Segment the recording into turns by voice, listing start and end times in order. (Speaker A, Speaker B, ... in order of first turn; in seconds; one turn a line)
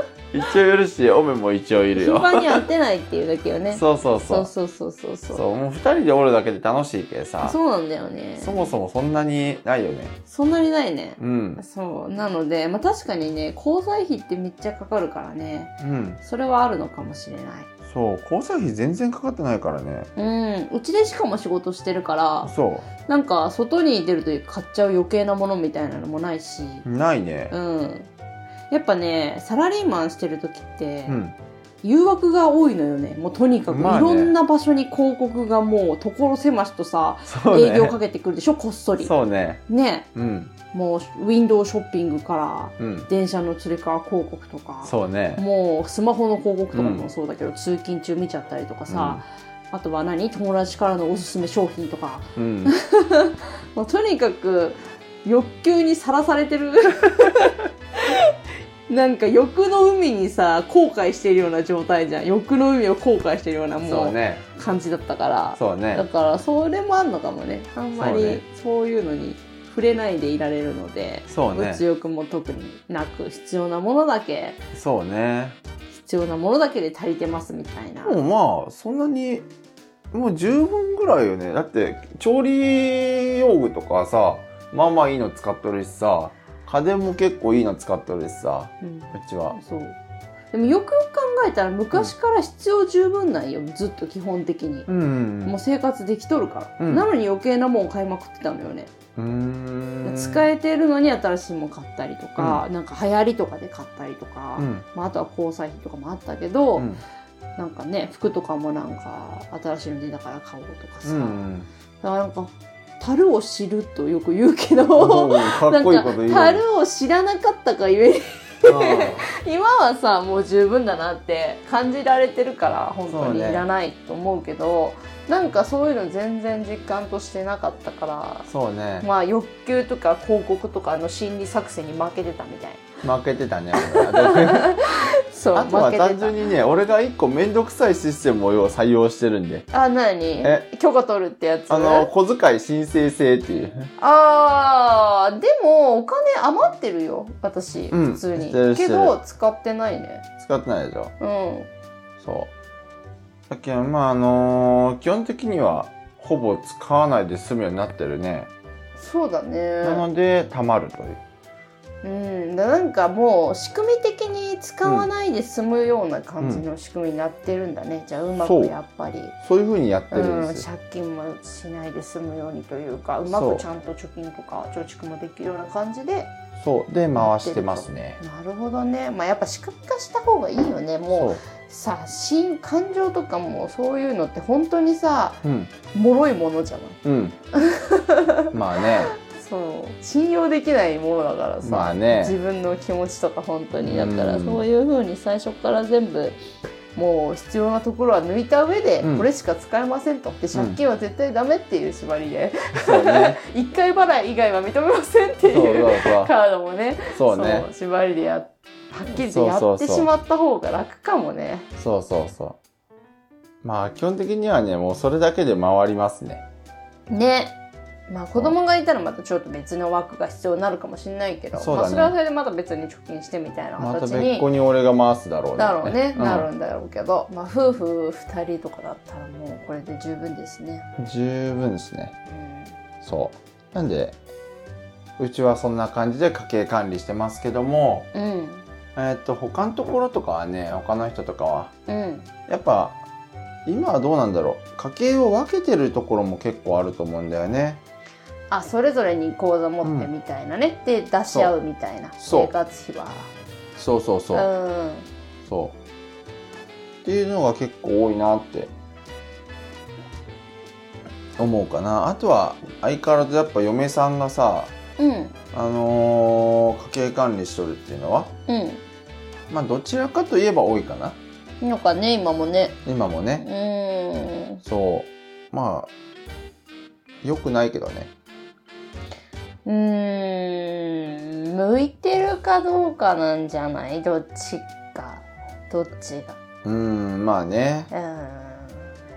Speaker A: 0.3-2.6
Speaker B: 1.9-5.4
Speaker A: 3.7-4.5
Speaker A: 5.3-7.6
Speaker B: 7.4-8.7
Speaker A: 8.4-10.2
Speaker B: 10.3-17.7
Speaker A: 11.2-11.6
Speaker A: 15.8-16.2
Speaker A: 17.9-20.1
Speaker B: 20.2-22.5
Speaker A: 22.4-22.9
Speaker B: 23.1-26.9
Speaker A: 26.9-27.5
Speaker B: 27.5-28.1
Speaker B: 28.7-31.2
Speaker A: 31.1-31.4
Speaker B: 31.8-39.1
Speaker A: 33.7-34.4
Speaker A: 37.3-38.0
Speaker A: 39.0-39.6
Speaker B: 39.7-40.1
Speaker A: 40.1-40.5
Speaker B: 40.7-58.4
Speaker A: 42.8-43.1
Speaker A: 44.8-45.4
Speaker A: 46.7-47.1
Speaker A: 48.9-49.2
Speaker A: 52.4-52.7
Speaker B: 58.9-74.6
Speaker A: 63.8-64.5
Speaker A: 65.5-66.0
Speaker A: 68.0-68.4
Speaker A: 71.3-71.8
Speaker A: 74.7-75.6
Speaker B: 75.9-78.2
Speaker A: 78.0-79.5
Speaker A: 80.1-89.6
Speaker B: 88.8-90.0
Speaker B: 90.5-94.9
Speaker A: 94.9-95.6
Speaker B: 95.5-98.9
Speaker A: 96.8-97.1
Speaker A: 99.2-100.5
Speaker B: 100.0-106.9
Speaker A: 102.4-102.6
Speaker A: 104.6-104.9
Speaker A: 106.8-107.0
Speaker B: 107.6-111.5
Speaker A: 111.0-111.7
Speaker B: 112.0-128.5
Speaker A: 115.0-116.6
Speaker A: 118.6-119.3
Speaker A: 123.1-123.7
Speaker A: 128.5-129.1
Speaker B: 129.0-132.9
Speaker A: 133.0-134.7
Speaker B: 133.7-136.5
Speaker A: 135.5-139.7
Speaker B: 139.7-142.1
Speaker A: 141.7-143.9
Speaker B: 144.0-150.2
Speaker A: 147.9-149.2
Speaker A: 150.4-151.1
Speaker B: 151.2-151.7
Speaker A: 152.2-152.5
Speaker A: 153.5-158.5
Speaker B: 159.0-160.1
Speaker A: 159.8-161.2
Speaker B: 162.0-169.3
Speaker A: 166.4-166.7
Speaker A: 168.4-168.8
Speaker A: 169.4-170.7
Speaker B: 170.1-176.3
Speaker A: 173.3-173.7
Speaker A: 176.6-178.2
Speaker B: 177.1-187.0
Speaker A: 181.1-181.4
Speaker A: 185.4-185.7
Speaker A: 187.0-187.4
Speaker B: 187.5-188.5
Speaker A: 188.5-189.1
Speaker B: 189.1-196.4
Speaker A: 191.6-192.4
Speaker A: 193.8-194.7
Speaker B: 196.9-211.7
Speaker A: 199.0-199.3
Speaker A: 202.8-203.4
Speaker A: 205.5-206.3
Speaker A: 207.1-207.7
Speaker A: 209.2-210.1
Speaker A: 211.8-212.6
Speaker A: 213.6-216.4
Speaker B: 217.1-217.6
Speaker B: 218.1-224.5
Speaker A: 221.6-222.2
Speaker A: 223.8-226.5
Speaker B: 225.6-230.9
Speaker A: 231.0-232.2
Speaker B: 232.3-232.8
Speaker A: 233.0-234.2
Speaker A: 235.2-238.1
Speaker B: 238.1-238.7
Speaker A: 239.0-241.7
Speaker B: 241.9-242.3
Speaker A: 242.5-243.0
Speaker A: 243.7-247.8
Speaker B: 248.5-253.3
Speaker A: 249.8-250.1
Speaker A: 251.3-251.6
Speaker A: 252.2-252.5
Speaker A: 253.8-254.5
Speaker B: 254.3-255.1
Speaker A: 255.4-255.8
Speaker A: 257.1-258.7
Speaker A: 261.4-264.7
Speaker B: 265.0-265.4
Speaker A: 265.5-268.3
Speaker B: 268.5-268.8
Speaker A: 269.5-271.2
Speaker B: 271.6-272.8
Speaker A: 272.9-273.5
Speaker B: 273.4-274.6
Speaker A: 274.6-275.9
Speaker A: 277.2-278.1
Speaker B: 279.6-286.4
Speaker A: 286.6-287.9
Speaker B: 287.9-288.9